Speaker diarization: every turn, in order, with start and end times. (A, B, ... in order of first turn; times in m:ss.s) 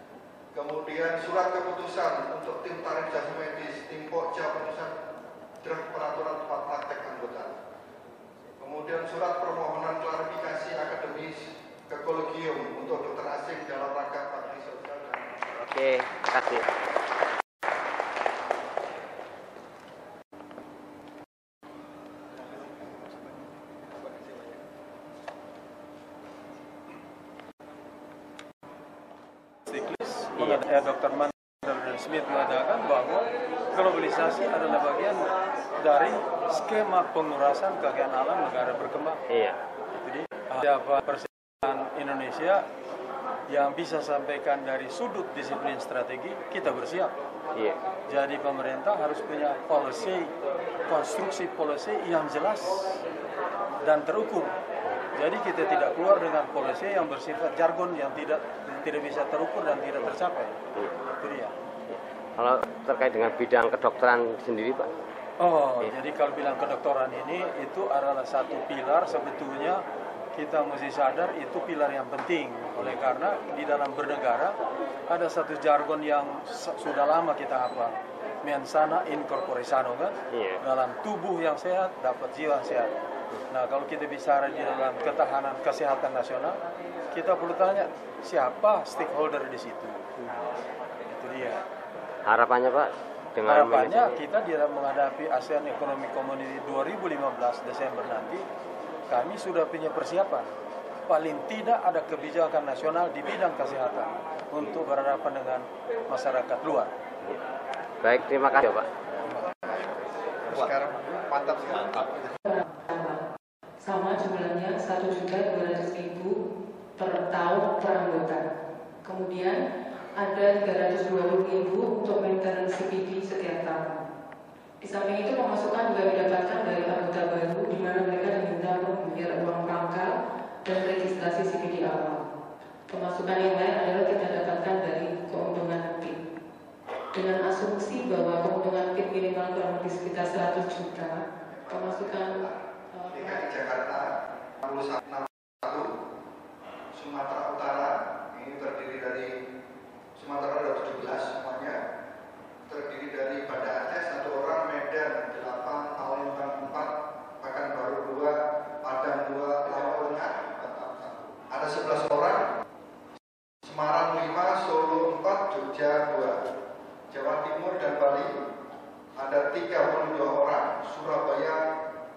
0:00.5-0:04.9 A
0:05.6-0:07.5 A
0:08.6-0:15.4 A
0:15.7-0:16.6 B
0:29.7-0:39.2 C
0:39.3-0:39.6 B
0:40.0-0:42.6 C
0:43.5-0:47.1 C
0:48.1-0:50.3 C
0:50.9-0:53.0 C
0:53.8-0:54.5 C
0:55.2-1:00.6 C
1:01.2-1:01.5 C
1:02.4-1:04.9 B
1:05.4-1:09.8 C
1:10.3-1:14.5 C
1:15.1-1:22.9 C
1:20.3-1:20.6 B
1:23.5-1:26.6 C
1:27.1-1:30.0 C
1:31.1-1:31.6 C
1:32.2-1:34.1 B
1:33.4-1:38.4 C
1:39.1-1:40.5 C
1:41.1-1:46.9 C
1:48.0-1:48.9 B
1:49.3-1:50.0 A
1:50.5-1:52.1 A
1:52.4-1:53.2 D
1:53.8-1:56.4 D
1:57.0-1:58.4 D
1:59.0-1:59.6 D
2:00.1-2:04.0 D
2:04.8-2:10.1 D
2:10.6-2:12.2 D
2:12.9-2:16.1 D
2:17.1-2:22.4 D
2:21.5-2:22.6 A
2:22.9-2:23.5 D
2:23.1-2:24.1 A
2:24.6-2:25.9 A
2:26.9-2:29.3 A
2:30.1-2:31.8 A
2:32.7-2:42.4 A
2:43.6-2:46.4 A
2:47.1-2:48.3 A
2:49.2-2:51.6 A